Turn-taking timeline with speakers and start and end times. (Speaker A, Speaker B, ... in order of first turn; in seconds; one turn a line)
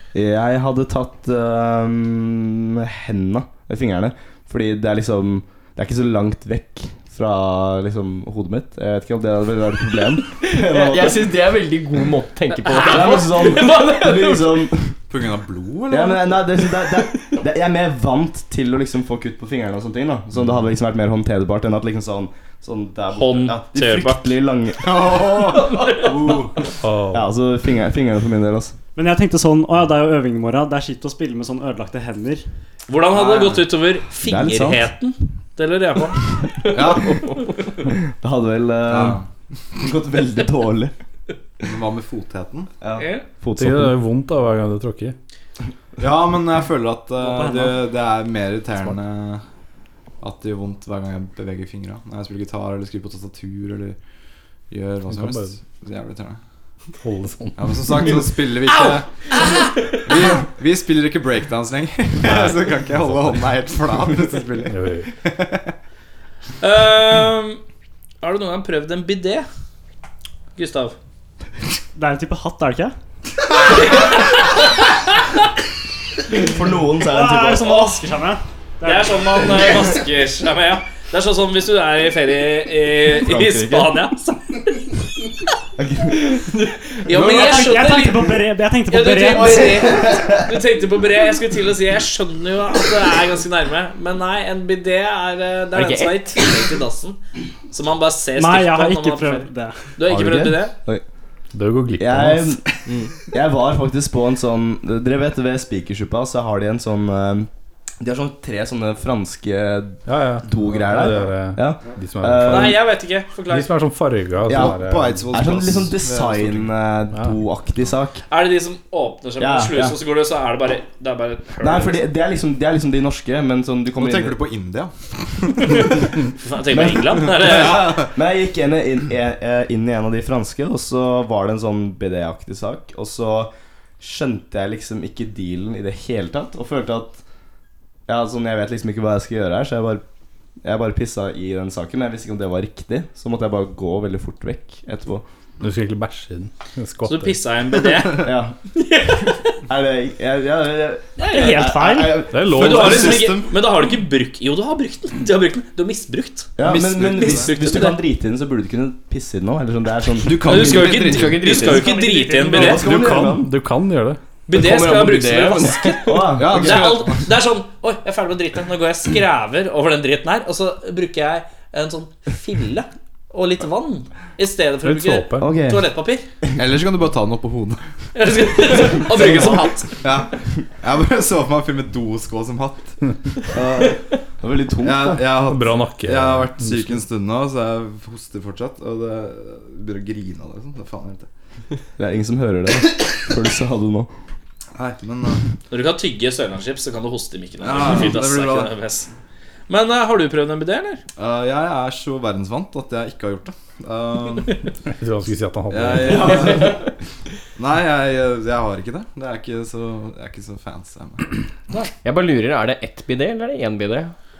Speaker A: 0.1-11.3
Speaker B: 10.4-14.4
Speaker C: 12.5-13.8
Speaker A: 12.7-15.0
Speaker D: 15.1-16.4
Speaker A: 15.9-25.1
Speaker C: 23.1-24.2
Speaker D: 24.8-26.6
Speaker C: 25.5-26.4
Speaker E: 26.8-27.3
Speaker A: 27.1-28.8
Speaker F: 28.9-32.4
Speaker C: 32.9-36.2
Speaker D: 33.1-33.6
Speaker A: 34.2-34.9
Speaker D: 36.7-37.3
Speaker A: 37.9-39.2
Speaker D: 38.9-39.3
Speaker A: 39.8-40.9
Speaker D: 41.6-42.7
Speaker A: 42.8-44.0
Speaker C: 43.0-43.2
Speaker E: 43.6-45.1
Speaker D: 46.0-49.4
Speaker F: 47.2-47.8
Speaker D: 50.2-54.0
Speaker D: 54.7-56.4
Speaker E: 55.1-55.5
Speaker E: 57.0-58.1
Speaker D: 57.6-65.7
Speaker E: 62.2-63.4
Speaker E: 64.7-65.1
Speaker C: 66.6-67.6
Speaker C: 68.2-69.5
Speaker C: 70.5-71.0
Speaker F: 71.9-72.9
Speaker C: 73.6-74.6
Speaker A: 76.3-77.9
Speaker F: 77.0-79.5
Speaker C: 78.8-84.6
Speaker A: 83.1-84.0
Speaker A: 85.8-86.5
Speaker C: 87.0-97.2
Speaker F: 87.1-89.8
Speaker A: 89.4-90.4
Speaker B: 95.7-96.5
Speaker C: 97.7-100.7
Speaker F: 98.3-99.9
Speaker A: 100.0-101.0
Speaker E: 101.5-102.6
Speaker A: 102.0-102.7
Speaker A: 103.3-107.5
Speaker A: 108.0-112.8
Speaker E: 110.0-112.8
Speaker C: 112.5-113.7
Speaker E: 113.5-115.3
Speaker A: 114.5-114.8
Speaker D: 114.5-116.7
Speaker A: 115.3-118.2
Speaker C: 118.3-122.0
Speaker A: 119.4-120.0
Speaker A: 121.6-124.3
Speaker D: 124.0-125.9
Speaker C: 126.4-128.0
Speaker A: 126.7-137.2
Speaker D: 127.2-128.1
Speaker A: 138.1-140.0
Speaker A: 140.6-145.2
Speaker E: 145.6-147.4
Speaker C: 147.0-149.5
Speaker A: 148.2-148.5
Speaker A: 149.7-152.9
Speaker C: 151.2-151.7
Speaker F: 151.3-152.3
Speaker E: 152.3-153.3
Speaker D: 152.5-153.5
Speaker C: 152.5-158.0
Speaker A: 156.6-160.7
Speaker D: 156.6-157.5
Speaker D: 160.2-161.4
Speaker C: 160.4-162.8
Speaker B: 160.6-161.9
Speaker F: 161.5-162.7
Speaker A: 162.5-163.5
Speaker E: 162.6-164.2
Speaker C: 164.5-176.2
Speaker B: 164.5-166.3
Speaker A: 166.0-166.9
Speaker D: 166.3-167.2
Speaker E: 174.8-175.5
Speaker A: 175.4-175.9
Speaker D: 176.6-177.8
Speaker C: 178.1-179.9
Speaker D: 179.1-183.9
Speaker A: 183.5-185.3
Speaker D: 184.8-191.3
Speaker E: 185.4-186.8
Speaker A: 192.0-194.1
Speaker D: 194.8-195.4
Speaker C: 195.7-199.1
Speaker D: 197.6-198.7
Speaker C: 199.7-201.0
Speaker D: 201.2-204.6
Speaker E: 204.9-206.5
Speaker D: 205.7-206.8
Speaker A: 206.3-206.7
Speaker B: 206.5-206.8
Speaker D: 207.6-211.2
Speaker B: 212.0-214.1